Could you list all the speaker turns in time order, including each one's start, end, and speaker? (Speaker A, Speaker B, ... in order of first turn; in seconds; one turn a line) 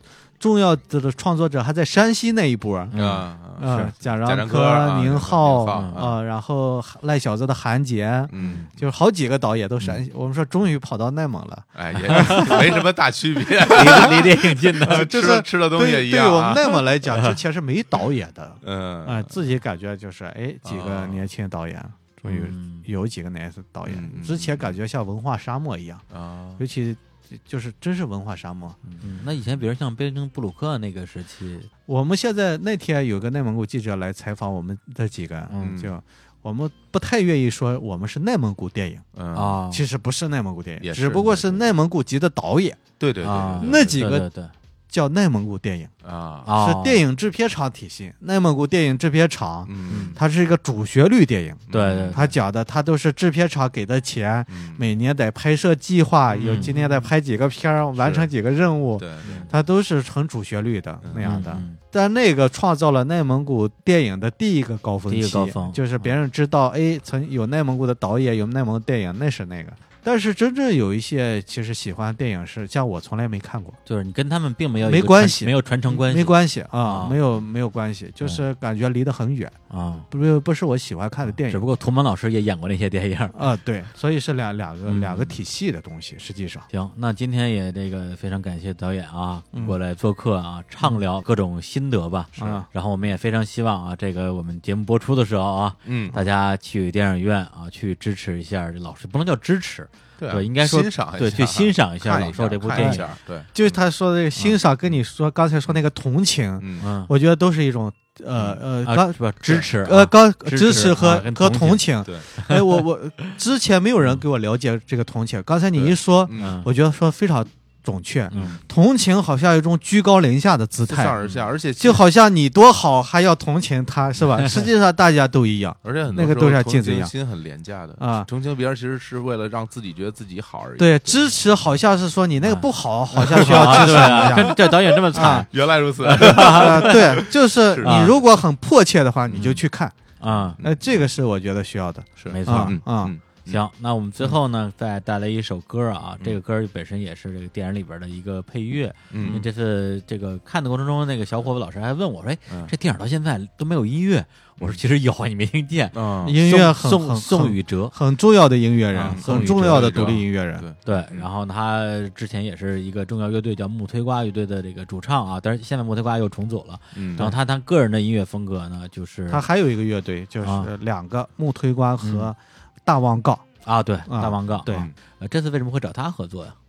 Speaker A: 0.4-3.0
Speaker B: 2.9-3.9
Speaker C: 3.0-6.2
Speaker A: 3.6-12.8
Speaker B: 5.7-6.1
Speaker C: 8.3-8.7
Speaker B: 8.4-8.7
Speaker C: 11.8-16.8
Speaker B: 12.1-12.7
Speaker B: 13.6-15.1
Speaker A: 13.7-14.2
Speaker A: 14.8-26.1
Speaker C: 18.6-19.4
Speaker C: 20.6-21.3
Speaker B: 22.2-22.9
Speaker C: 23.9-24.8
Speaker C: 26.1-26.6
Speaker A: 26.6-28.8
Speaker B: 29.0-31.7
Speaker A: 31.9-39.0
Speaker B: 35.5-35.8
Speaker C: 35.6-36.0
Speaker C: 39.2-39.6
Speaker B: 39.3-39.8
Speaker A: 39.7-42.8
Speaker C: 40.8-41.6
Speaker C: 43.0-44.0
Speaker B: 43.2-44.5
Speaker A: 43.6-44.3
Speaker A: 44.9-45.9
Speaker C: 46.0-46.5
Speaker B: 46.5-47.0
Speaker A: 46.5-73.8
Speaker C: 49.7-50.2
Speaker B: 49.9-50.2
Speaker C: 51.7-52.3
Speaker B: 51.7-52.3
Speaker C: 54.5-54.8
Speaker C: 56.3-56.9
Speaker B: 56.4-56.9
Speaker C: 58.0-58.3
Speaker C: 59.0-59.5
Speaker B: 59.2-59.5
Speaker C: 61.0-61.4
Speaker B: 61.2-61.8
Speaker B: 65.1-66.1
Speaker B: 73.9-77.2
Speaker A: 74.8-79.5
Speaker B: 79.7-80.1
Speaker A: 80.1-81.7
Speaker B: 81.3-83.4
Speaker A: 83.3-86.7
Speaker B: 84.9-85.4
Speaker B: 86.7-103.0
Speaker C: 92.4-92.6
Speaker A: 92.4-92.7
Speaker C: 95.9-96.2
Speaker C: 100.2-103.8
Speaker A: 102.7-121.2
Speaker C: 106.6-106.9
Speaker B: 106.8-107.1
Speaker B: 108.5-112.8
Speaker C: 115.8-116.6
Speaker B: 116.4-116.7
Speaker B: 118.3-118.6
Speaker C: 120.9-122.0
Speaker A: 121.8-127.1
Speaker C: 125.8-131.4
Speaker A: 128.0-128.3
Speaker A: 130.8-134.6
Speaker B: 132.4-137.3
Speaker C: 133.3-138.2
Speaker A: 135.1-135.5
Speaker A: 136.1-140.0
Speaker B: 137.8-138.1
Speaker C: 139.3-139.6
Speaker B: 140.2-140.6
Speaker C: 140.2-140.9
Speaker A: 140.6-143.1
Speaker C: 142.2-143.6
Speaker B: 142.3-142.8
Speaker B: 143.5-157.9
Speaker C: 149.1-149.5
Speaker C: 152.5-152.8
Speaker C: 155.9-156.4
Speaker A: 156.2-160.7
Speaker B: 158.9-160.2
Speaker C: 159.0-161.3
Speaker B: 160.8-169.5
Speaker C: 166.9-167.4
Speaker A: 169.3-173.5
Speaker B: 170.4-170.7
Speaker B: 172.0-172.3
Speaker B: 173.7-176.6
Speaker A: 174.1-174.9
Speaker C: 174.7-174.9